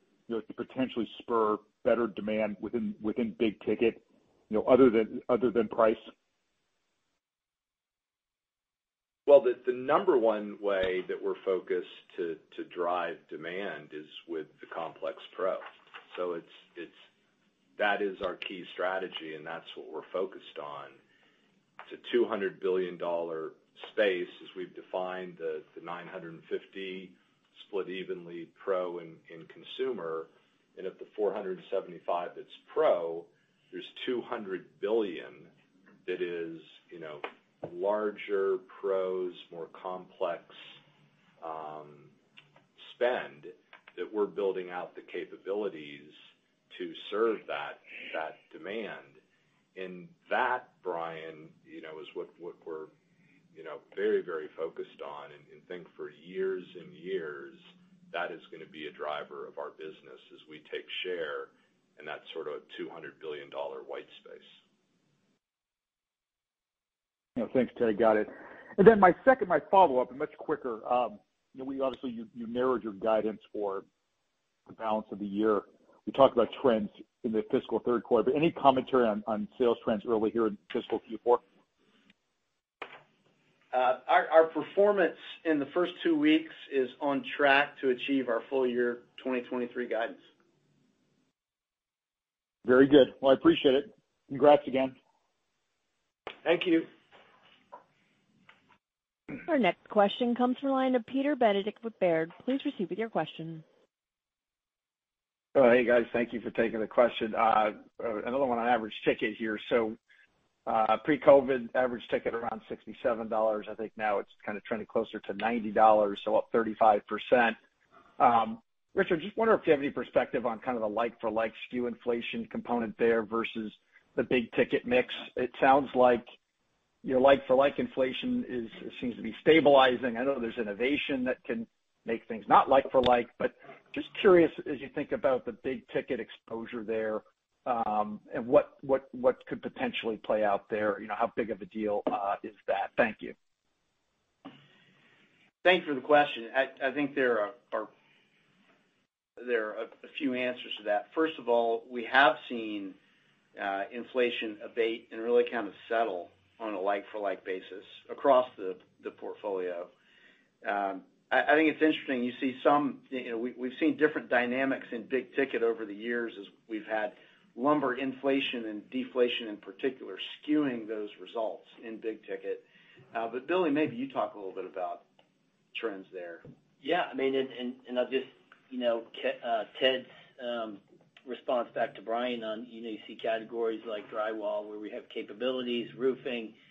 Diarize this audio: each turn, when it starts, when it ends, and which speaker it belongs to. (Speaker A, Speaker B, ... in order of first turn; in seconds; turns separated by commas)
Speaker A: 0.3-6.0, Speaker B: 9.2-17.0, Speaker B: 17.8-21.0, Speaker B: 21.9-35.5, Speaker B: 36.0-40.7, Speaker B: 41.4-42.1, Speaker B: 42.8-49.2, Speaker B: 49.7-52.9, Speaker B: 53.5-64.6, Speaker A: 67.4-73.8, Speaker A: 74.7-81.4, Speaker C: 83.7-90.2, Speaker A: 92.6-95.0, Speaker B: 96.5-96.9, Speaker D: 99.5-103.6, Speaker E: 105.5-110.0, Speaker E: 110.7-117.6, Speaker E: 118.2-126.3, Speaker E: 127.0-143.3, Speaker C: 145.6-147.9, Speaker C: 149.4-152.9, Speaker C: 153.6-159.9, Speaker C: 160.6-175.0, Speaker C: 175.7-176.4, Speaker F: 176.8-186.6